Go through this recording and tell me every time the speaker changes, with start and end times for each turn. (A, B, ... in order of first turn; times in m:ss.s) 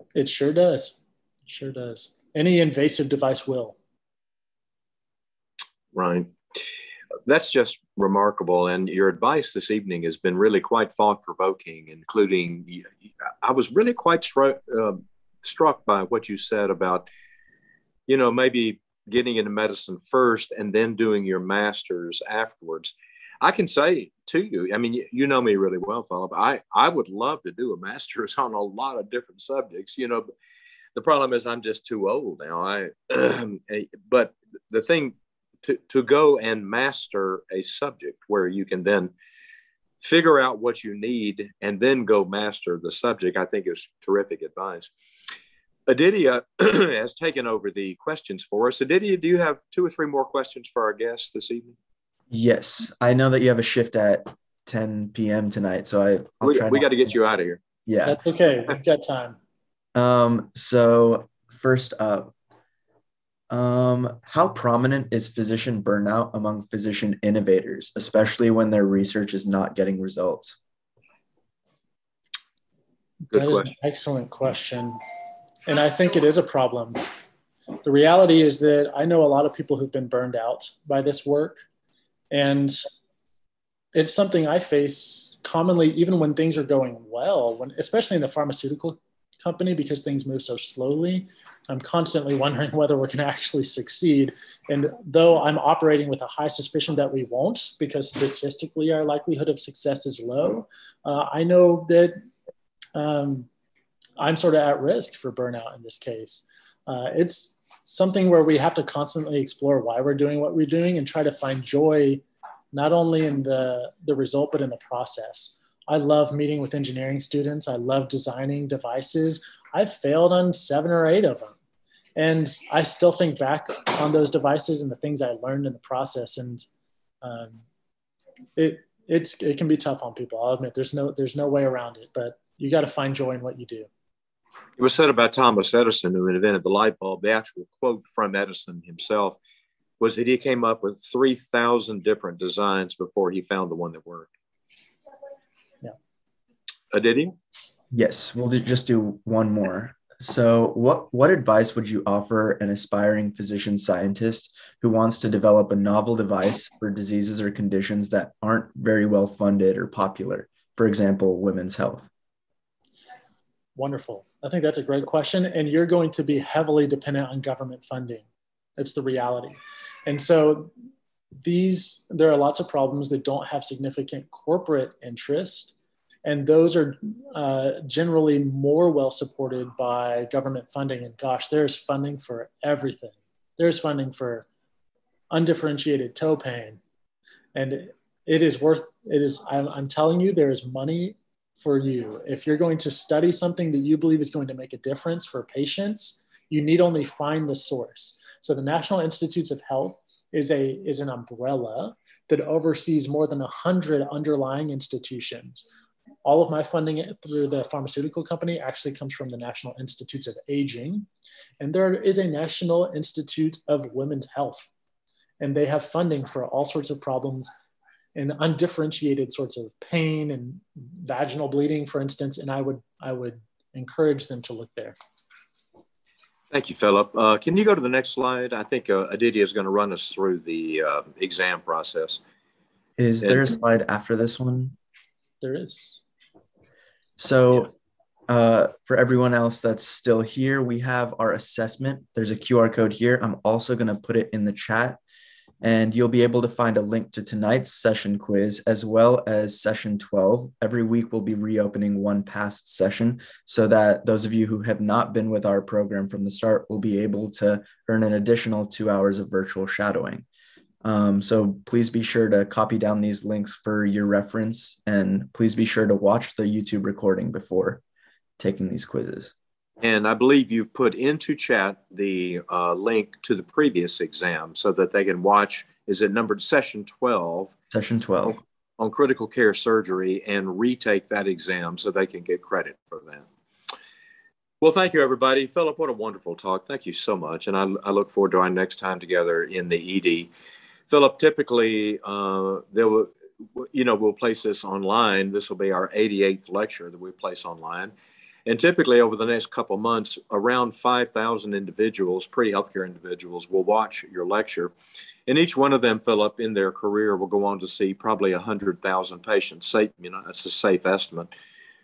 0:00.1-0:03.8 A
0:05.9-0:06.6 B
0:07.2-0:17.1 B
0:18.1-0:30.3 B
0:30.9-0:39.1 B
0:40.0-0:44.9 B
0:45.9-0:51.7 B
0:52.3-0:57.1 C
0:56.4-0:57.6 B
0:57.8-0:58.2 C
0:58.0-0:59.4 A
0:59.9-1:02.3 C
1:03.5-1:10.6 C
1:13.3-1:13.7 B
1:13.3-1:15.0 A
1:15.6-1:17.0 A
1:17.8-1:21.6 A
1:22.3-1:22.8 A
1:23.9-1:42.2 A
1:42.9-1:43.5 A
1:44.2-2:01.6 A
2:02.2-2:06.6 A
2:07.2-2:07.6 A
2:08.6-2:13.9 A
2:14.8-2:19.4 B
2:20.0-2:24.3 B
2:26.9-2:27.3 B
2:27.9-2:42.1 C
2:43.8-2:48.2 A
2:48.8-2:50.7 A
2:51.4-3:04.5 A
3:05.3-3:06.8 A
3:07.5-3:25.6 A
3:26.2-3:31.1 A
3:31.6-3:34.7 A
3:35.4-3:37.5 A
3:38.1-3:45.0 A
3:46.5-3:52.2 B
3:53.0-3:54.7 C
3:55.4-3:56.0 A
3:57.2-3:57.7 C
3:58.3-4:05.0 C
4:05.6-4:20.2 C
4:20.8-4:27.8 C
4:28.4-4:29.3 C
4:29.8-4:37.5 B
4:37.7-4:38.4 C
4:38.8-4:43.3 B
4:44.6-4:50.3 B
4:50.9-4:57.9 B
4:58.4-5:04.7 B
5:05.2-5:11.3 B